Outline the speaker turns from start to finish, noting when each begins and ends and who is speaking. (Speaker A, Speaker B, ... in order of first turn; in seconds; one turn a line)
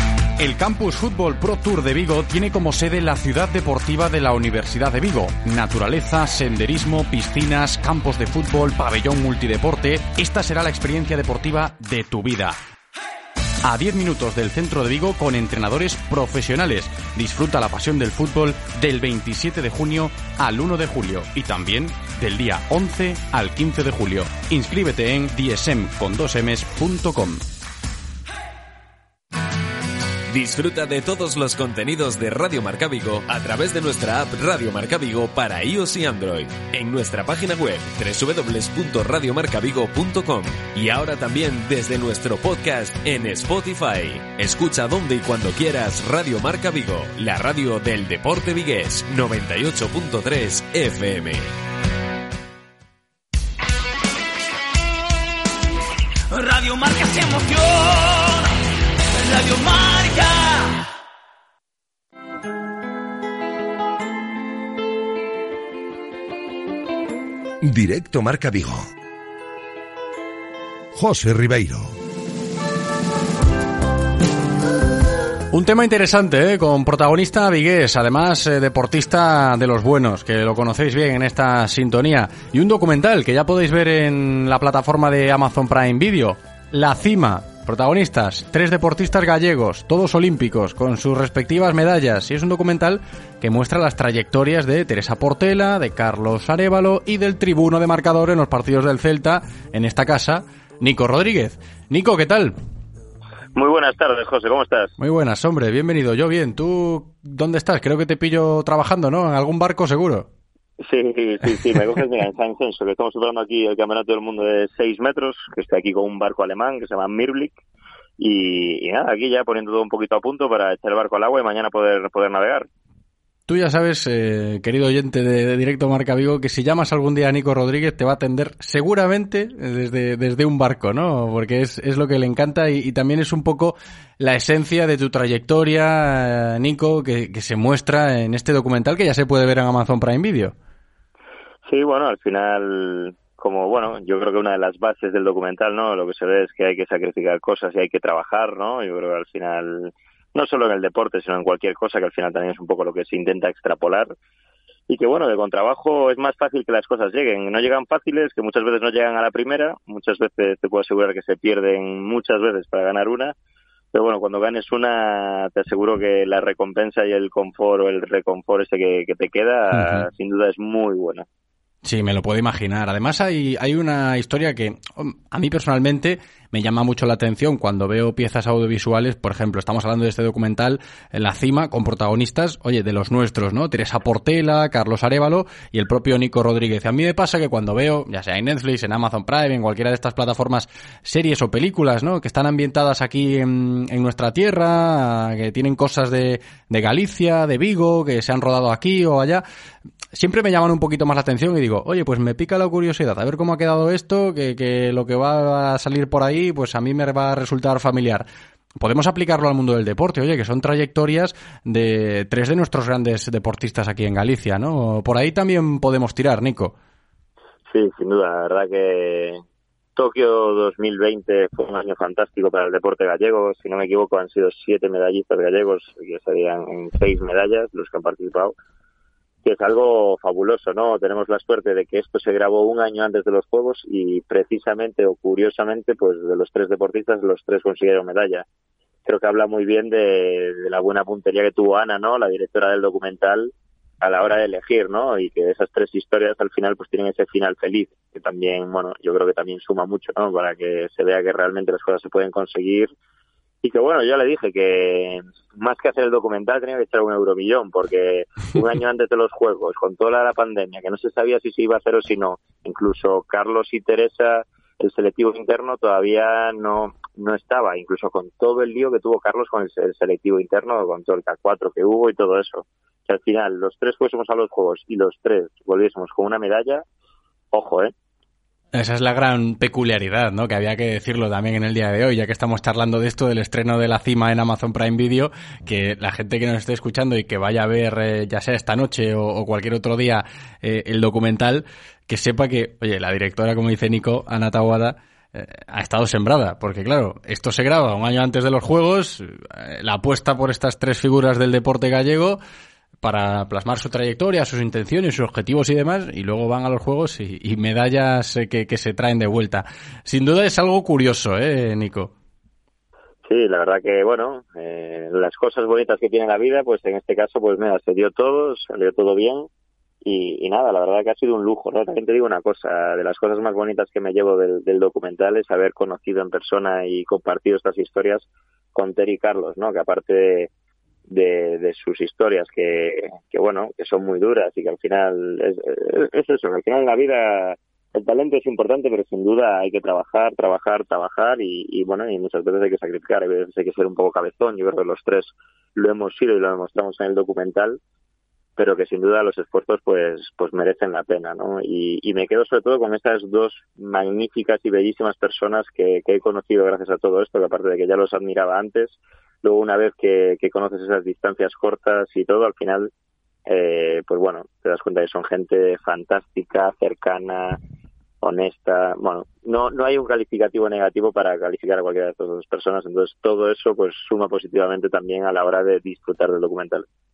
Speaker A: 0.4-12.6
Speaker A: 13.6-27.4
Speaker B: 30.3-51.5
Speaker C: 56.3-58.5
Speaker C: 59.1-60.8
Speaker D: 67.6-68.9
Speaker D: 70.9-71.9
Speaker A: 75.5-102.5
Speaker E: 103.5-104.9
Speaker A: 105.0-110.3
Speaker E: 110.8-117.6
Speaker E: 118.2-122.7
Speaker A: 123.5-140.5
Speaker E: 141.7-154.1
Speaker E: 154.9-163.3
Speaker E: 163.9-171.2
Speaker A: 169.7-170.1
Speaker A: 171.8-199.4
Speaker A: 200.1-208.2
Speaker A: 208.8-216.7
Speaker E: 217.7-219.4
Speaker E: 219.9-228.6
Speaker E: 229.4-238.4
Speaker E: 239.1-252.9
Speaker E: 253.6-276.8
Speaker E: 277.5-277.9
Speaker A: 278.7-302.4
Speaker A: 303.0-312.1
Speaker E: 313.2-319.5
Speaker E: 320.0-330.5
Speaker E: 331.1-347.8
Speaker E: 348.6-362.9
Speaker E: 363.4-367.6
Speaker E: 368.2-376.8